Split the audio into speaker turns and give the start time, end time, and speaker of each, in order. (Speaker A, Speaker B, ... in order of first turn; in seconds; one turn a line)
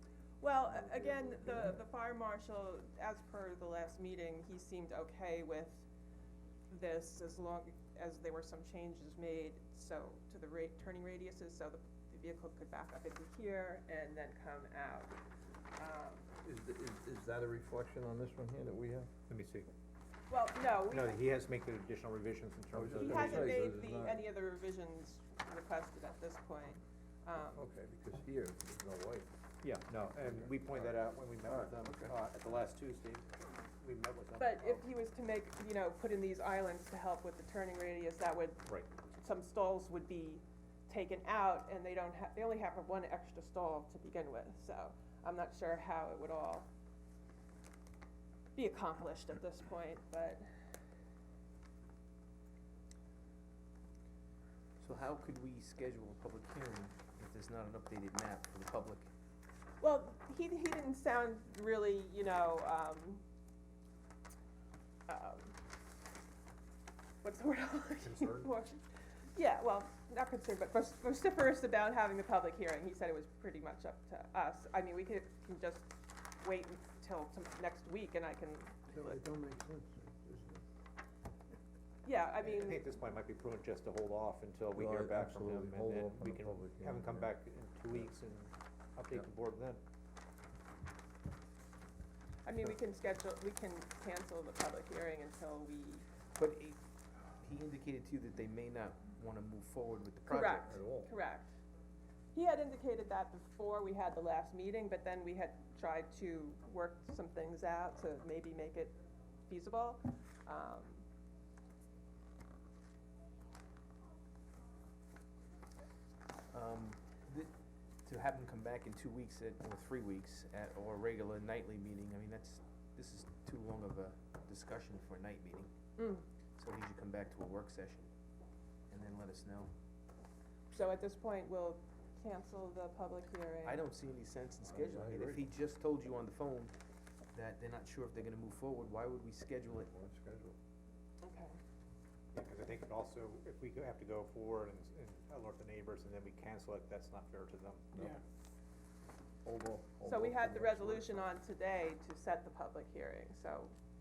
Speaker A: 0.4-5.9
Speaker B: 0.7-1.7
Speaker A: 6.7-15.2
Speaker A: 15.8-16.3
Speaker B: 16.4-19.1
Speaker C: 19.3-19.7
Speaker A: 20.3-21.2
Speaker C: 20.9-23.6
Speaker B: 22.7-24.2
Speaker A: 23.0-27.7
Speaker B: 27.5-29.3
Speaker C: 29.6-34.8
Speaker B: 30.2-30.5
Speaker D: 31.5-32.1
Speaker A: 34.4-46.7
Speaker A: 48.6-50.5
Speaker D: 54.8-59.1
Speaker A: 59.8-63.2
Speaker A: 65.1-65.6
Speaker A: 67.2-68.8
Speaker A: 69.3-79.2
Speaker B: 79.0-80.1
Speaker A: 82.0-82.8
Speaker C: 82.4-89.8
Speaker B: 84.7-87.3
Speaker A: 92.5-96.1
Speaker D: 96.3-96.8
Speaker D: 97.4-100.8
Speaker A: 100.3-101.5
Speaker B: 100.6-101.1
Speaker A: 102.3-111.0
Speaker D: 116.5-117.5
Speaker D: 118.0-125.7
Speaker A: 126.0-126.2
Speaker D: 126.6-128.1
Speaker D: 128.9-129.7
Speaker A: 130.7-133.8
Speaker D: 133.7-136.7
Speaker B: 134.6-135.5
Speaker D: 137.3-139.9
Speaker B: 139.8-140.6
Speaker A: 141.2-141.6
Speaker C: 142.3-148.0
Speaker B: 147.9-148.2
Speaker B: 149.4-151.2
Speaker A: 150.1-153.7